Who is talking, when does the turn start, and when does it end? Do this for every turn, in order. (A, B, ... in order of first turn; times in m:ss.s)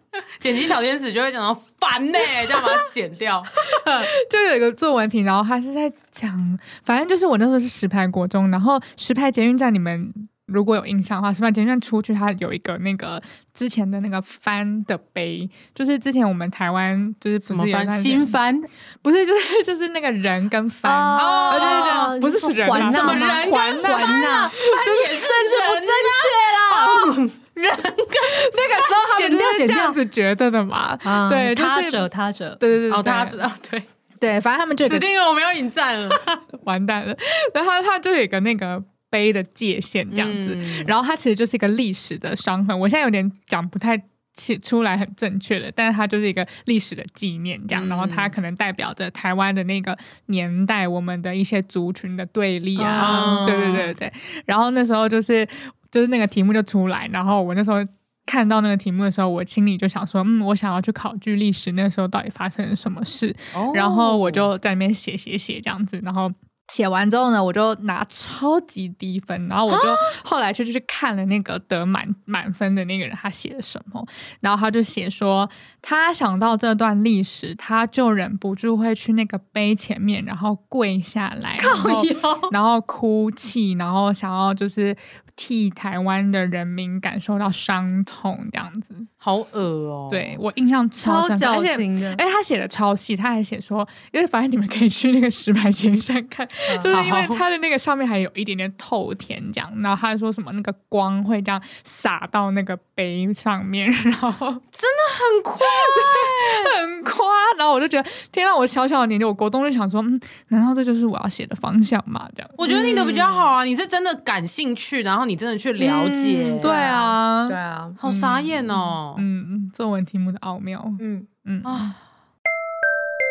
0:00.4-0:03.5 A
0:03.7-0:04.1 B
0:04.0-0:18.4 C
0:17.4-0:18.7 A
0:19.0-0:25.2 C
0:20.8-0:27.5 B
0:21.2-0:22.1 A
0:22.7-0:27.2 A
0:28.1-0:30.0 B
0:28.1-0:32.1 C
0:31.0-0:32.6 B
0:32.6-0:33.4 C
0:32.9-0:33.9 A
0:34.2-0:35.1 C
0:34.8-0:36.2 A
0:36.6-1:29.1 C
0:40.1-0:40.9 A
0:47.7-0:48.4 A
0:52.8-0:53.5 B
0:53.0-0:53.9 A
1:03.5-1:04.5 A
1:09.7-1:10.1 A
1:21.6-1:22.5 B
1:29.2-1:30.4 A
1:30.1-1:44.6 C
1:31.0-1:32.2 B
1:36.7-1:37.0 B
1:36.9-1:37.4 A
1:44.7-1:46.7 A
1:45.6-1:53.2 C
1:52.6-1:56.8 A
1:52.8-1:53.5 B
1:55.8-1:58.0 B
1:56.6-2:02.0 C
1:58.0-1:59.2 A
2:01.0-2:01.3 B
2:01.6-2:02.0 A